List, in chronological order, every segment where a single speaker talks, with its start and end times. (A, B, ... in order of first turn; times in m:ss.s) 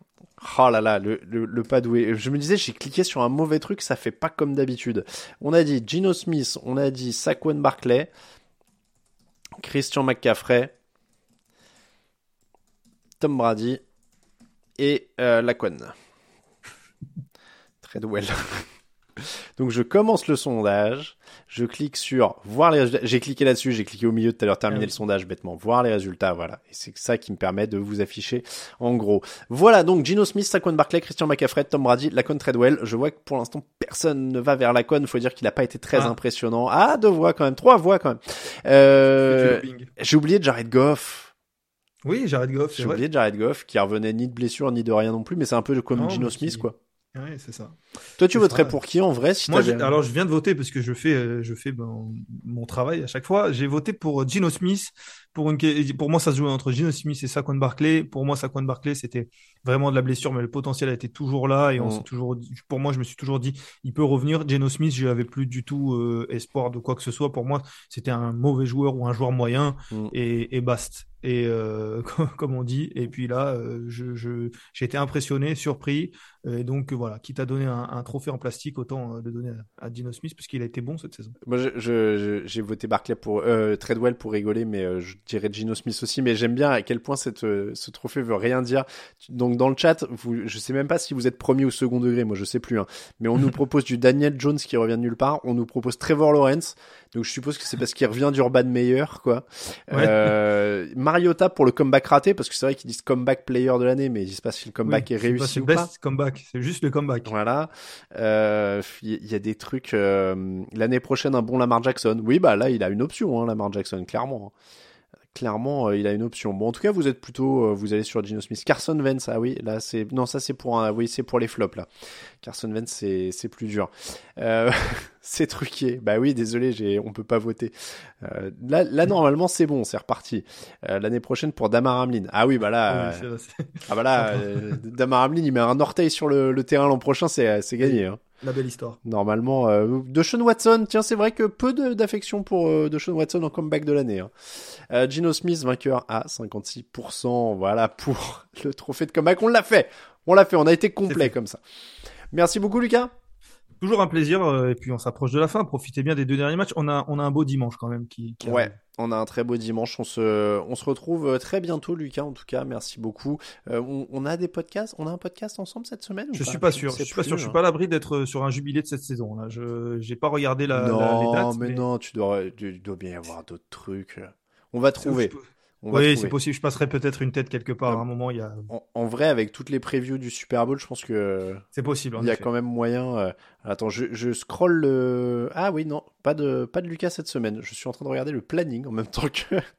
0:00.4-0:08.1 A
0:09.6-0:10.7 A
0:13.2-0:13.8 A
0:14.8-0:16.0 A
0:17.8-0:41.3 A
0:39.2-0:39.9 B
0:42.0-0:43.0 B
0:42.8-0:46.8 A
0:46.0-0:47.8 B
0:48.2-0:49.9 A
0:48.3-0:48.8 B
0:49.5-1:21.4 B
1:21.4-1:45.9 A
1:39.9-1:40.3 B
1:44.9-1:47.3 B
1:47.2-1:54.5 A
1:55.3-2:01.9 A
2:02.4-2:13.2 A
2:12.9-2:14.8 B
2:13.9-2:18.2 A
2:17.8-2:19.0 B
2:19.0-2:31.6 A
2:32.3-2:33.1 A
2:33.8-2:38.8 B
2:38.4-2:47.6 A
2:46.4-2:51.8 B
2:50.7-2:56.3 A
2:55.0-2:58.7 B
2:58.7-3:01.7 A
3:01.8-3:02.5 B
3:02.2-3:09.6 A